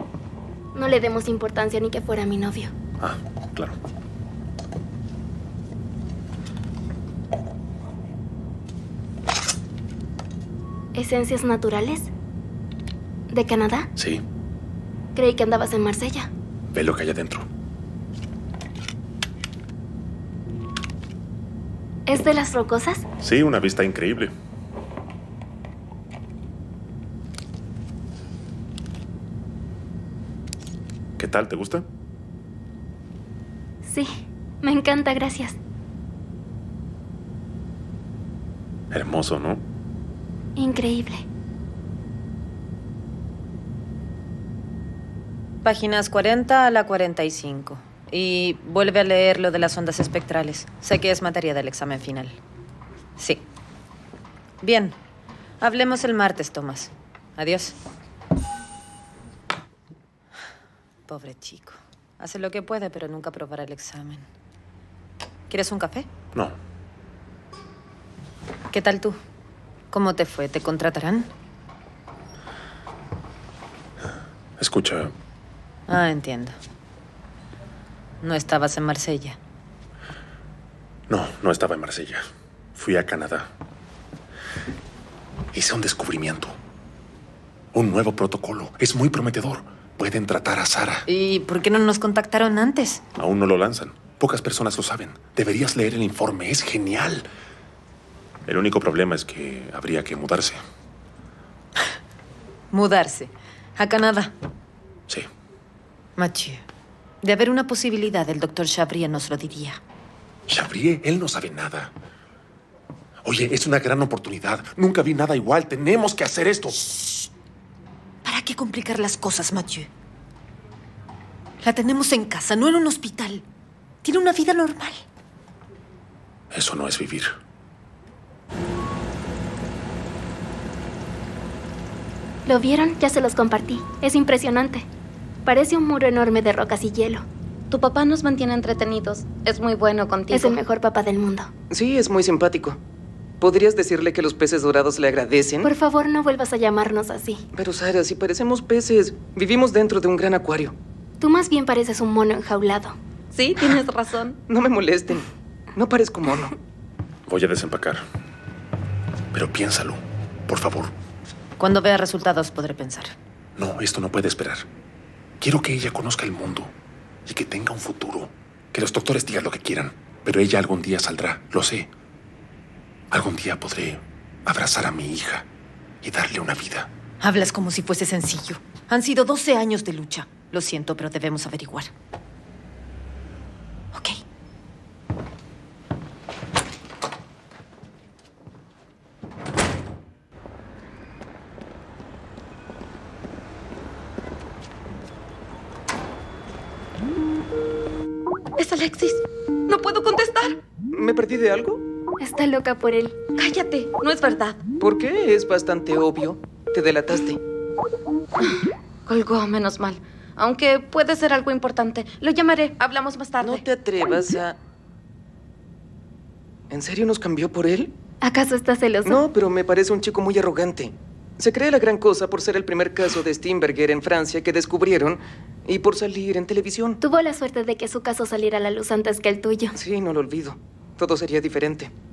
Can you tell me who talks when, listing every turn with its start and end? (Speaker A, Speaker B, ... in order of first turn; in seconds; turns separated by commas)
Speaker A: 0.7-2.7, Speaker B: 3.0-3.8, Speaker A: 10.9-12.1, Speaker A: 13.3-13.9, Speaker B: 14.0-14.2, Speaker A: 15.2-16.3, Speaker B: 16.7-17.5, Speaker A: 22.1-23.0, Speaker B: 23.2-24.3, Speaker B: 31.2-31.9, Speaker A: 33.8-34.1, Speaker A: 34.6-35.6, Speaker B: 38.9-39.6, Speaker A: 40.5-41.2, Speaker C: 45.6-52.4, Speaker C: 53.2-53.4, Speaker C: 54.6-55.0, Speaker C: 55.6-57.8, Speaker C: 61.1-64.3, Speaker C: 65.5-66.1, Speaker C: 68.7-69.2, Speaker C: 69.9-71.3, Speaker B: 74.6-75.1, Speaker C: 75.9-76.5, Speaker C: 78.2-79.4, Speaker B: 81.1-83.5, Speaker B: 85.5-86.5, Speaker B: 87.7-91.0, Speaker C: 91.0-93.0, Speaker B: 93.2-97.3, Speaker B: 98.5-100.6, Speaker C: 102.7-104.3, Speaker C: 106.2-106.6, Speaker C: 107.2-109.8, Speaker B: 110.5-111.9, Speaker B: 113.2-116.9, Speaker C: 117.0-117.2, Speaker C: 118.2-119.9, Speaker C: 121.6-123.4, Speaker C: 124.0-125.0, Speaker B: 126.5-127.3, Speaker A: 132.4-134.8, Speaker A: 135.4-137.2, Speaker D: 137.7-140.6, Speaker A: 140.3-141.5, Speaker E: 141.7-142.8, Speaker E: 143.4-145.7, Speaker A: 145.6-147.4, Speaker E: 147.5-150.7, Speaker A: 151.2-152.9, Speaker D: 153.3-154.4, Speaker E: 154.5-156.5, Speaker B: 157.3-158.0, Speaker B: 159.3-160.9, Speaker C: 161.6-163.1, Speaker B: 163.6-164.7, Speaker B: 165.4-166.7, Speaker B: 167.3-171.9, Speaker B: 173.1-175.4, Speaker B: 176.0-176.9, Speaker C: 177.2-181.9, Speaker C: 183.9-184.2, Speaker D: 198.6-200.6, Speaker E: 200.9-201.8, Speaker A: 202.2-203.2, Speaker D: 203.4-204.6, Speaker E: 204.8-207.4, Speaker D: 209.1-214.4, Speaker E: 213.4-214.5, Speaker E: 216.7-217.9, Speaker A: 218.2-219.2, Speaker E: 219.0-227.0, Speaker A: 227.0-229.7, Speaker E: 229.7-231.9